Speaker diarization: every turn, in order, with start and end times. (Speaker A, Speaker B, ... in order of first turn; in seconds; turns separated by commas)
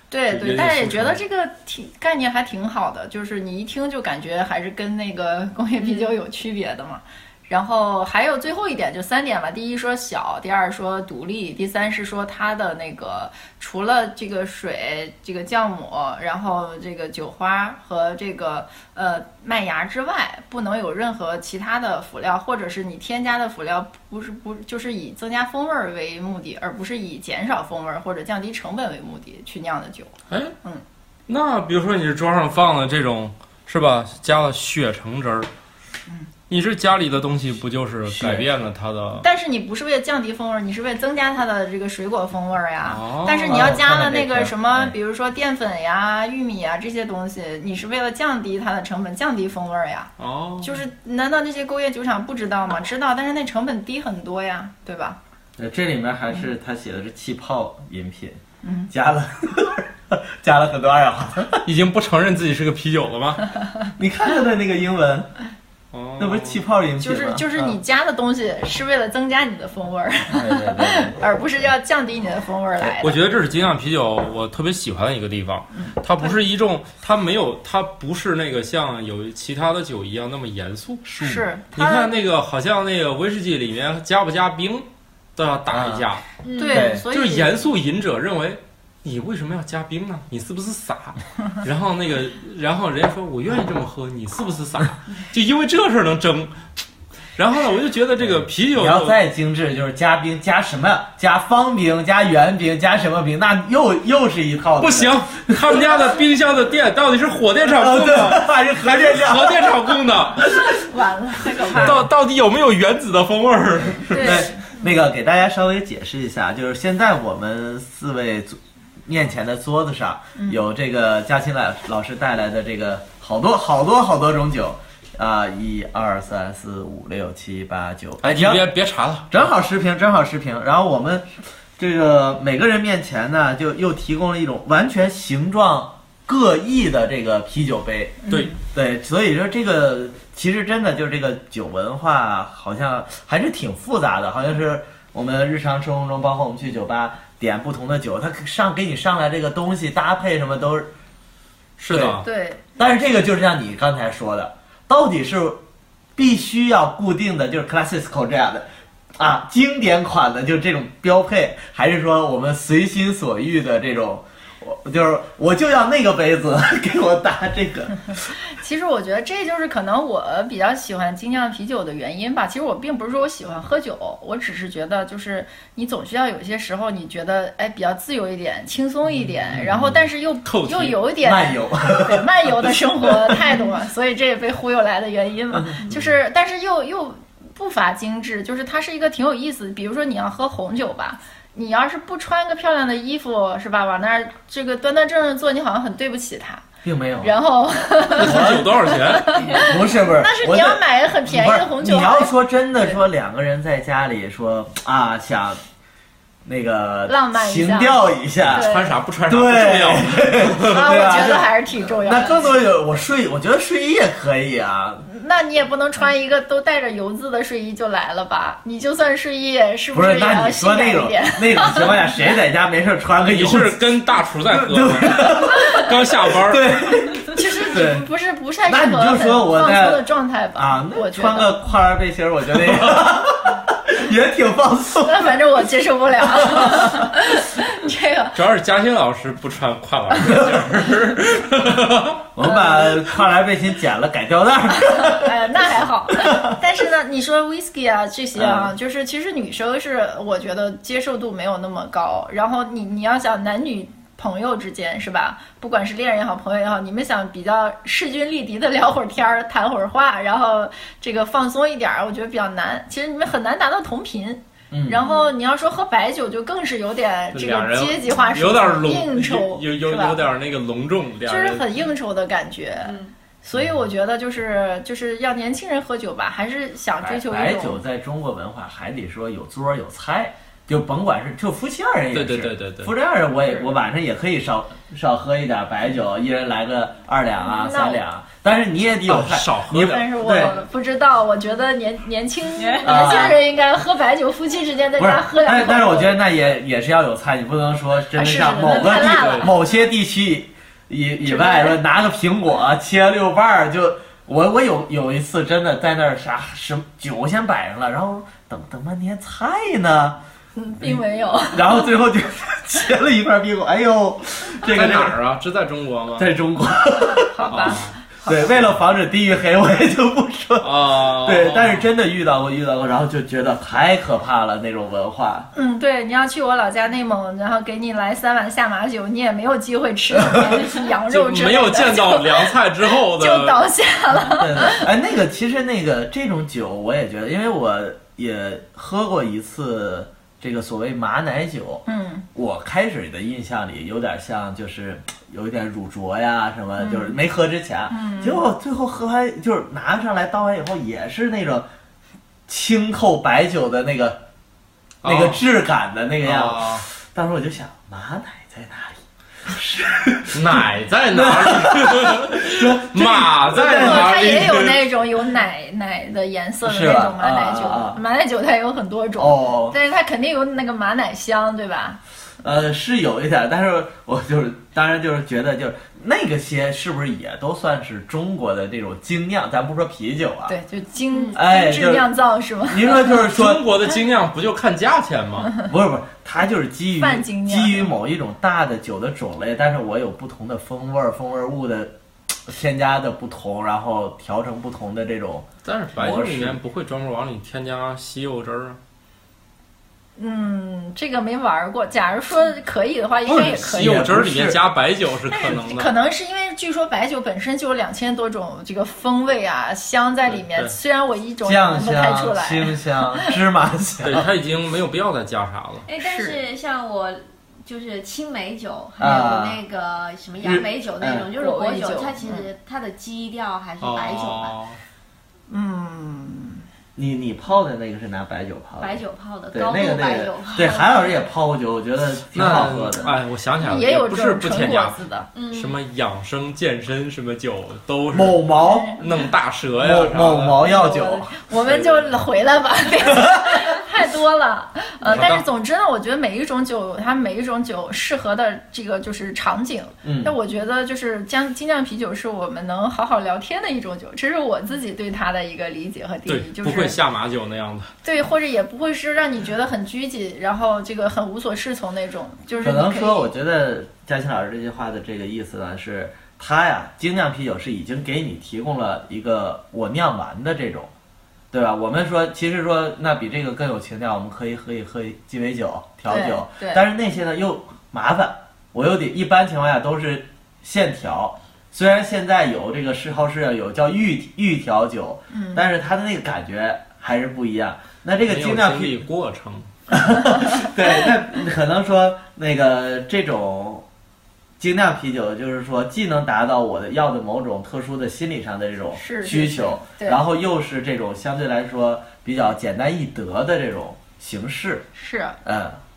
Speaker A: 0.1-30.1, Speaker B: 0.3-1.2, Speaker B: 31.3-35.5, Speaker B: 36.5-39.3, Speaker C: 38.1-38.5, Speaker A: 39.2-55.2, Speaker B: 42.9-43.7, Speaker C: 43.5-44.9, Speaker B: 50.2-50.8, Speaker C: 55.6-61.6, Speaker A: 58.6-58.9, Speaker B: 61.6-63.5, Speaker C: 64.0-65.3, Speaker B: 65.9-66.6, Speaker C: 66.2-67.8, Speaker A: 67.0-73.2, Speaker C: 70.3-71.2, Speaker B: 73.0-86.2, Speaker A: 75.7-76.4, Speaker A: 81.2-82.2, Speaker C: 85.7-86.1, Speaker D: 86.4-86.9, Speaker A: 86.5-87.6, Speaker C: 86.7-87.0, Speaker B: 87.1-96.6, Speaker B: 97.4-99.2, Speaker C: 98.7-106.0, Speaker B: 104.8-110.5, Speaker C: 107.7-110.7, Speaker A: 110.9-112.0, Speaker C: 111.7-112.0, Speaker B: 111.7-114.5, Speaker C: 113.8-128.6, Speaker A: 114.1-114.8, Speaker A: 120.4-120.6, Speaker B: 128.2-129.4, Speaker C: 129.3-150.9, Speaker A: 138.2-138.6, Speaker B: 151.8-152.2, Speaker C: 151.9-152.2, Speaker A: 152.2-152.6, Speaker C: 152.8-155.6, Speaker C: 156.2-168.2, Speaker A: 168.5-196.6, Speaker C: 179.5-179.9, Speaker B: 180.4-181.1, Speaker C: 181.2-183.6, Speaker C: 185.5-185.9, Speaker C: 196.8-197.3, Speaker A: 197.2-202.4, Speaker B: 198.1-199.5, Speaker C: 198.2-198.8, Speaker C: 199.4-205.6, Speaker C: 206.4-208.7, Speaker A: 207.1-209.0, Speaker B: 208.5-210.9, Speaker C: 209.3-215.1, Speaker A: 210.6-212.5, Speaker A: 215.1-222.0, Speaker C: 219.9-223.8, Speaker B: 223.3-226.6, Speaker C: 224.5-228.1, Speaker A: 227.3-231.6, Speaker C: 228.7-230.0, Speaker C: 230.6-235.4, Speaker A: 235.0-238.4, Speaker C: 236.2-237.1, Speaker B: 238.3-242.2, Speaker C: 242.3-245.5, Speaker A: 242.4-243.1, Speaker A: 244.8-270.2, Speaker C: 246.2-246.6, Speaker C: 248.4-248.7, Speaker C: 264.7-265.0, Speaker B: 267.3-271.7, Speaker A: 271.3-277.8, Speaker C: 277.0-290.6, Speaker B: 282.1-282.9, Speaker A: 287.4-288.0, Speaker B: 289.1-290.5, Speaker A: 289.7-296.2, Speaker D: 292.6-293.4, Speaker C: 292.8-293.4, Speaker C: 295.0-310.2, Speaker A: 298.1-299.6, Speaker B: 298.9-299.5, Speaker A: 301.2-301.8, Speaker A: 310.6-311.9, Speaker C: 310.8-315.2, Speaker B: 314.6-316.3, Speaker C: 316.2-325.5, Speaker A: 317.1-318.4, Speaker B: 317.5-317.9, Speaker B: 320.6-321.9, Speaker A: 325.5-334.9, Speaker C: 330.1-330.7, Speaker B: 331.1-333.6, Speaker C: 334.2-341.8, Speaker A: 341.9-342.3, Speaker C: 342.4-351.7, Speaker A: 346.8-347.1, Speaker A: 347.9-348.4, Speaker C: 352.5-354.2, Speaker B: 355.0-355.4, Speaker C: 355.0-364.6, Speaker B: 356.2-356.9, Speaker B: 360.3-364.8, Speaker A: 363.6-372.0, Speaker C: 366.6-368.0, Speaker C: 369.2-369.8, Speaker C: 372.4-380.6, Speaker A: 380.5-383.2, Speaker C: 381.3-382.1, Speaker C: 382.6-383.7, Speaker B: 383.1-385.5, Speaker C: 385.6-396.6, Speaker A: 387.0-387.9, Speaker B: 395.6-398.8, Speaker A: 400.2-404.1, Speaker C: 403.3-404.6, Speaker B: 403.3-405.9, Speaker A: 405.3-413.3, Speaker B: 410.3-410.7, Speaker C: 411.4-414.3, Speaker B: 414.0-415.9, Speaker D: 415.9-424.6, Speaker A: 416.0-416.4, Speaker C: 419.0-419.6, Speaker C: 420.4-421.3, Speaker A: 421.4-422.5, Speaker B: 423.8-424.8, Speaker A: 425.5-426.6, Speaker C: 427.0-429.0, Speaker D: 428.8-430.9, Speaker C: 429.5-433.1, Speaker B: 432.3-435.0, Speaker A: 433.6-435.3, Speaker D: 435.3-435.8, Speaker B: 435.5-438.4, Speaker C: 438.1-438.9, Speaker A: 438.6-439.1, Speaker B: 439.0-440.6, Speaker C: 439.8-441.3, Speaker A: 440.6-457.0, Speaker B: 441.6-442.2, Speaker C: 443.0-443.6, Speaker B: 445.1-445.4, Speaker C: 450.0-450.3, Speaker B: 456.3-457.9, Speaker A: 458.0-463.3, Speaker C: 462.6-470.9, Speaker C: 471.5-489.0, Speaker A: 476.1-476.9, Speaker A: 485.3-485.6, Speaker B: 488.3-489.7, Speaker C: 489.9-493.9, Speaker C: 494.6-504.9, Speaker A: 498.9-500.2, Speaker A: 504.9-505.4, Speaker C: 505.4-505.8